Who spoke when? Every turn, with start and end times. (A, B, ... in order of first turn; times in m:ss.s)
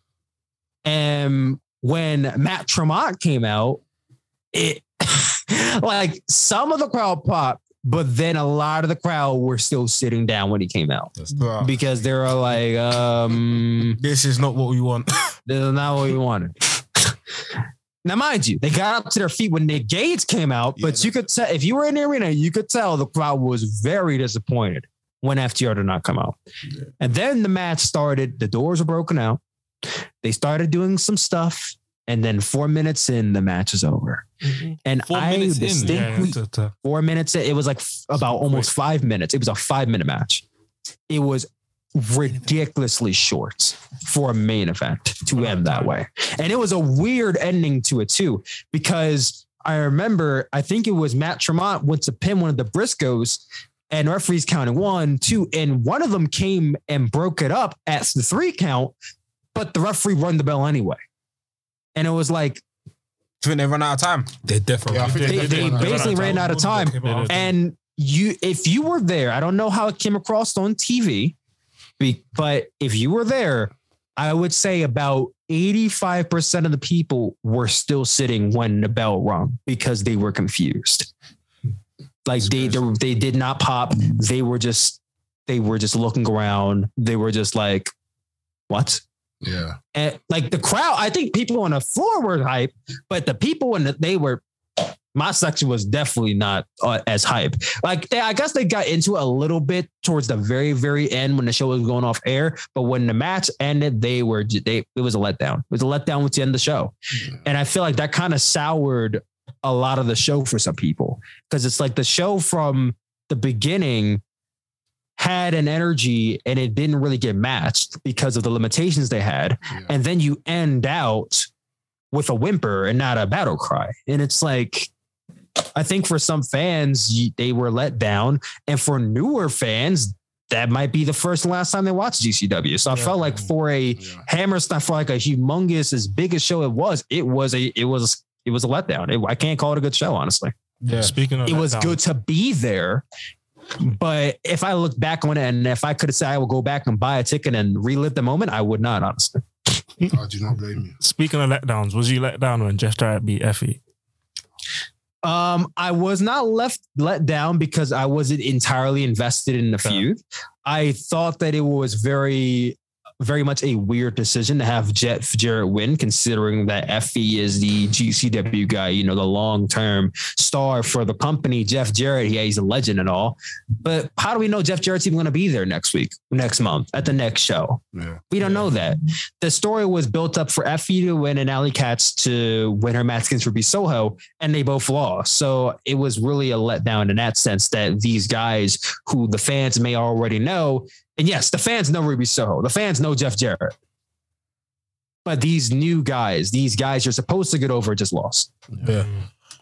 0:00.8-0:03.8 A
0:04.5-0:14.0 A
0:11.4-0:11.7 B
0:14.0-0:15.3 B
0:15.5-0:17.1 A
0:18.0-0:26.4 A
0:20.8-0:21.2 C
0:27.0-0:29.4 A
0:30.2-0:34.3 A
0:34.8-0:40.4 A
0:35.1-0:36.5 D
0:35.8-0:36.4 E
0:41.1-0:59.0 A
0:59.5-1:01.0 A
1:02.0-1:02.6 A
1:03.4-1:04.3 B
1:04.4-1:07.5 D
1:04.9-1:06.2 C
1:05.2-1:06.5 E
1:05.2-1:11.4 A
1:07.0-1:07.4 E
1:12.0-1:21.1 A
1:22.3-1:27.9 A
1:22.4-1:22.8 C
1:28.7-1:29.0 A
1:29.4-1:29.8 C
1:29.9-1:54.2 A
1:55.2-2:01.5 A
1:59.7-1:59.9 C
2:02.1-2:04.9 A
2:05.8-2:20.5 A
2:20.8-2:21.1 B
2:20.9-2:22.0 E
2:21.4-2:23.0 A
2:23.8-2:29.4 A
2:30.0-2:31.0 C
2:31.0-2:33.8 E
2:35.2-3:13.7 A
2:57.9-2:58.2 C
3:15.2-3:18.5 A
3:18.8-3:19.1 B